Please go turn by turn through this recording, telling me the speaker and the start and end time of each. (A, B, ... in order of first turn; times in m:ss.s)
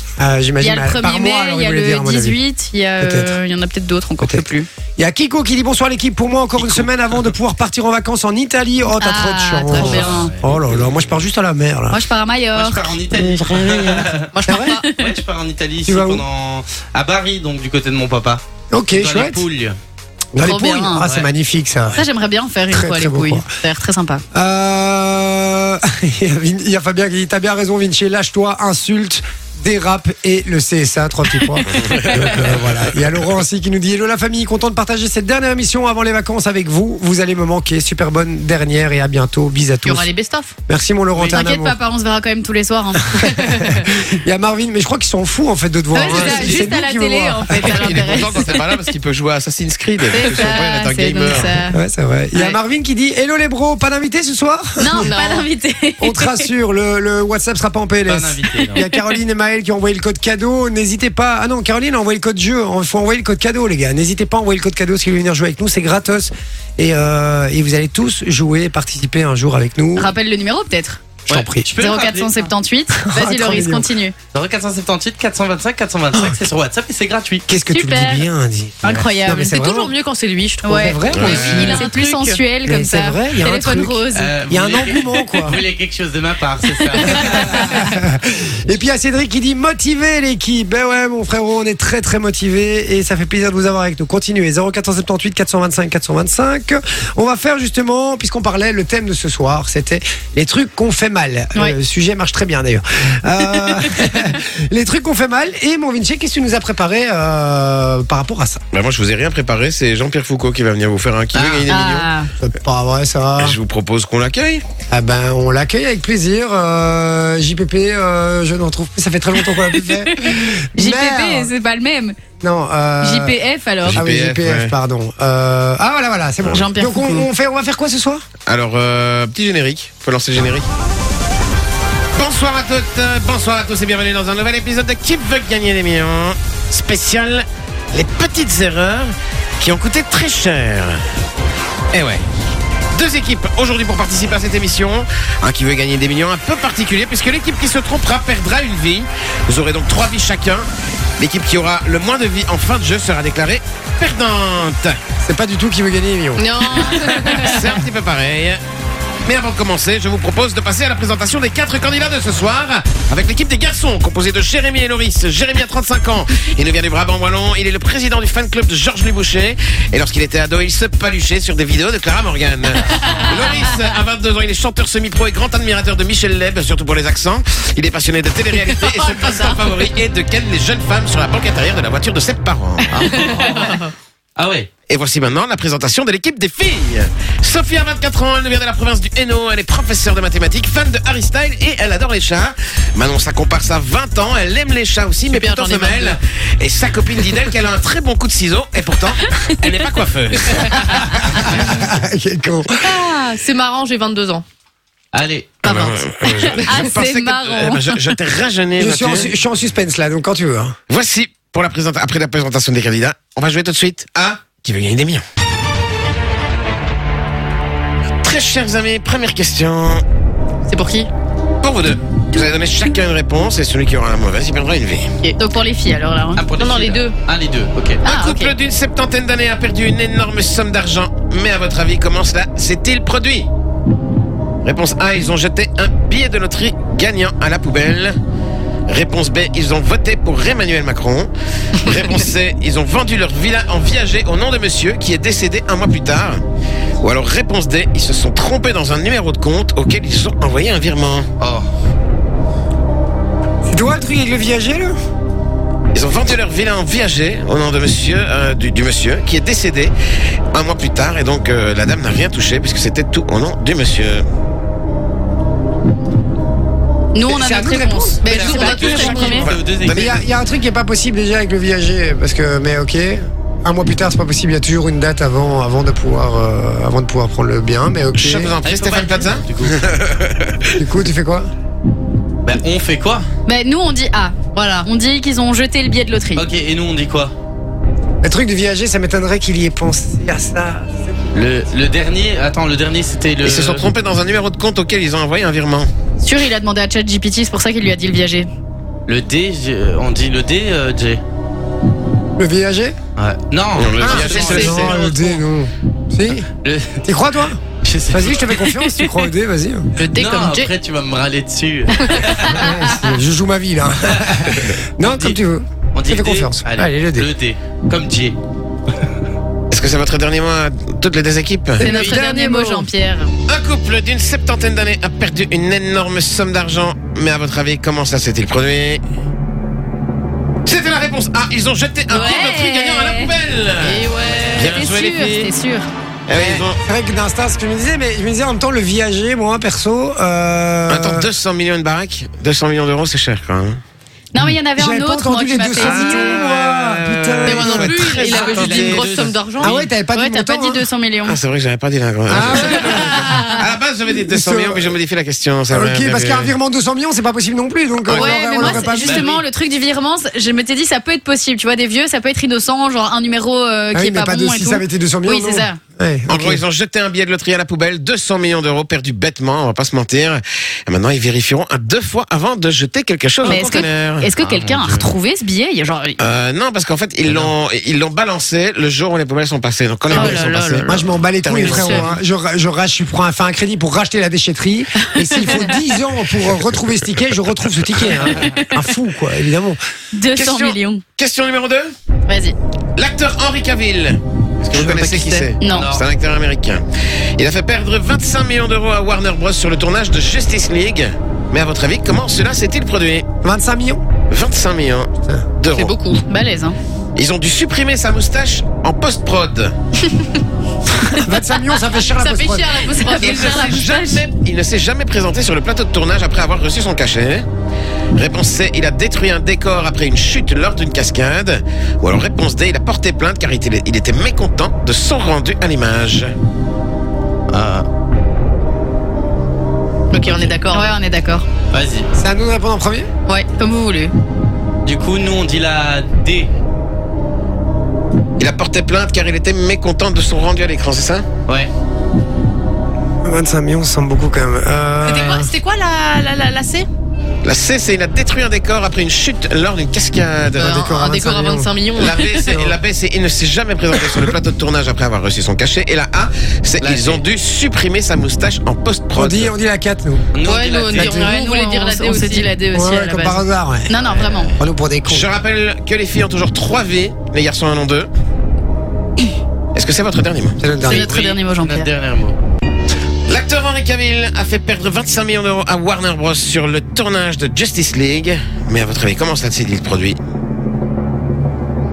0:00.2-0:02.4 A
0:00.6-0:04.7 B
0:03.0-0:03.3 A
0:04.2-0:12.0 A
0:09.0-0:10.3 B
0:09.7-0:10.9 C
0:11.9-0:12.9 B
0:12.5-0:14.3 C
0:13.1-0:14.8 A
0:14.4-0:14.9 D
0:14.5-0:15.1 B
0:14.9-0:18.4 C
0:15.9-0:16.2 A
0:18.7-0:19.4 A
0:18.9-0:19.8 C
0:20.3-0:22.0 A
0:20.4-0:21.1 B
0:21.9-0:24.2 B
0:22.7-0:23.5 A
0:24.3-0:40.1 A
0:39.8-0:40.5 D
0:40.7-0:41.8 A
0:41.3-0:43.4 B
0:43.1-0:48.3 A
0:45.9-0:48.6 B
0:46.0-0:46.5 C
0:47.7-0:51.6 E
0:50.1-0:51.8 B
0:51.7-0:55.1 A
0:54.8-0:56.5 B
0:55.0-0:55.4 D
0:56.0-1:10.1 A
0:58.1-0:58.8 C
0:58.8-0:59.2 B
1:10.0-1:11.0 B
1:11.3-1:11.7 A
1:11.3-1:12.5 C
1:11.8-1:14.1 B
1:12.9-1:13.9 A
1:14.3-1:17.5 C
1:17.5-1:19.9 A
1:17.7-1:18.2 B
1:18.8-1:19.1 B
1:18.9-1:22.4 D
1:20.6-1:21.8 A
1:20.6-1:24.4 B
1:21.1-1:21.5 E
1:22.6-1:25.6 A
1:24.1-1:27.8 C
1:26.8-1:27.8 B
1:27.3-1:48.6 A
1:48.7-1:52.1 E
1:51.4-1:51.7 C
1:51.7-1:52.3 B
1:52.4-1:53.6 A
1:53.4-1:54.6 E
1:54.9-2:01.5 A
1:59.6-2:02.2 B
2:02.4-2:03.4 A
2:03.0-2:04.0 B
2:03.8-2:04.7 E
2:04.0-2:08.2 A
2:06.4-2:07.2 B
2:08.5-2:10.7 E
2:12.2-2:21.0 E
2:21.9-2:22.2 E
2:22.9-2:30.7 E
2:31.2-2:35.0 E
2:35.2-2:36.4 A
2:36.4-2:37.5 D
2:37.3-2:38.6 E
2:39.2-3:02.9 E
2:58.7-2:59.6 D
3:02.9-3:03.8 C
3:04.4-3:04.7 C
3:04.9-3:21.0 E
3:15.3-3:16.2 D
3:21.5-3:22.8 A
3:22.8-3:24.4 D
3:25.1-3:25.7 C
3:25.6-3:29.3 E
3:26.6-3:28.0 B
3:28.8-3:30.8 A
3:30.9-3:35.2 E
3:38.2-3:40.0 E
3:40.7-3:41.1 D
3:41.6-3:45.1 E
3:45.4-3:46.4 B
3:46.4-3:48.0 C
3:46.6-3:47.2 D
3:48.0-3:48.5 B
3:48.0-3:53.5 E
3:54.6-3:58.2 E
3:58.9-4:01.3 E
4:01.8-4:06.4 E
4:07.0-4:11.3 E
4:11.4-4:11.7 C
4:13.6-4:14.9 A
4:15.9-4:19.9 E
4:20.5-4:24.2 E
4:27.1-4:29.5 B
4:27.2-4:38.5 A
4:28.2-4:30.1 C
4:28.7-4:30.2 E
4:38.2-4:40.8 E
4:38.6-4:39.8 C
4:40.8-4:41.5 A
4:42.4-4:43.3 C
4:43.5-4:46.5 B
4:46.4-4:47.3 C
4:48.2-4:51.2 A
4:51.4-4:53.9 C
4:53.4-4:55.9 E
4:56.2-4:58.5 B
4:59.1-5:01.2 C
5:02.4-5:03.0 A
5:03.2-5:05.2 C
5:03.8-5:05.1 E
5:04.0-5:06.5 A
5:06.6-5:07.0 C
5:07.0-5:07.6 A
5:07.8-5:08.5 C
5:08.1-5:09.9 A
5:10.0-5:10.7 D
5:10.2-5:12.0 C
5:12.1-5:12.5 B
5:12.5-5:17.3 A
5:15.0-5:15.4 C
5:16.0-5:18.4 C
5:19.7-5:21.8 E
5:21.8-5:22.9 A
5:21.8-5:23.3 B
5:23.5-5:29.0 E
5:30.6-5:35.5 E
5:32.1-5:33.3 B
5:32.2-5:32.4 D
5:33.8-5:34.7 D
5:34.2-5:35.9 B
5:36.3-5:36.8 E
5:36.8-5:41.3 A
5:40.9-5:43.8 E
5:44.3-5:46.4 B
5:44.4-5:48.1 A
5:46.3-5:49.2 E
5:47.4-5:49.8 D
5:48.1-5:49.4 C
5:49.6-5:50.8 A
5:50.2-5:51.4 B
5:51.2-5:56.5 E
5:52.3-5:53.3 A
5:52.6-5:53.6 B
5:54.2-5:54.9 A
5:55.7-5:59.4 A
5:58.1-5:58.4 E
5:58.1-6:05.8 B
5:58.6-5:59.4 C
6:03.9-6:06.6 A
6:06.3-6:14.3 E
6:13.4-6:13.8 D
6:13.4-6:16.2 B
6:14.4-6:15.1 C
6:16.2-6:22.1 E
6:17.3-6:17.5 C
6:20.1-6:20.9 D
6:20.1-6:20.7 B
6:20.2-6:29.8 A
6:25.2-6:25.8 B
6:28.3-6:28.7 B
6:30.1-6:31.0 B
6:30.4-6:31.9 E
6:32.3-6:32.6 B
6:33.0-6:36.8 E
6:34.8-6:35.9 B
6:35.7-6:36.1 C
6:37.4-6:43.3 E
6:43.4-6:44.0 A
6:44.3-6:46.0 E
6:45.7-6:46.2 D
6:46.3-6:46.8 B
6:47.2-6:49.7 E
6:51.2-6:52.9 A
6:51.8-6:54.0 D
6:52.3-6:54.2 B
6:53.2-6:57.5 E
6:58.2-7:06.3 E
7:07.5-7:07.9 C
7:10.1-7:11.0 D
7:10.7-7:11.5 B
7:11.7-7:12.1 C
7:12.2-7:13.1 A
7:13.3-7:14.1 B
7:14.8-7:16.5 C
7:18.4-7:21.3 E
7:23.2-7:25.5 A
7:25.0-7:26.9 D
7:27.4-7:30.8 E
7:30.6-7:32.5 D
7:30.6-7:31.7 A
7:32.0-7:39.5 E
7:32.4-7:32.8 A
7:36.8-7:37.2 C
7:39.2-7:40.2 A
7:40.3-7:41.2 C
7:40.4-7:42.6 D
7:41.0-7:44.5 B
7:42.7-7:43.9 A
7:44.1-7:44.5 C
7:44.6-7:45.3 A
7:45.1-7:48.1 E
7:49.8-7:50.6 E
7:50.6-7:51.1 A
7:50.9-7:51.9 B
7:50.9-7:52.4 C
7:53.3-8:00.2 E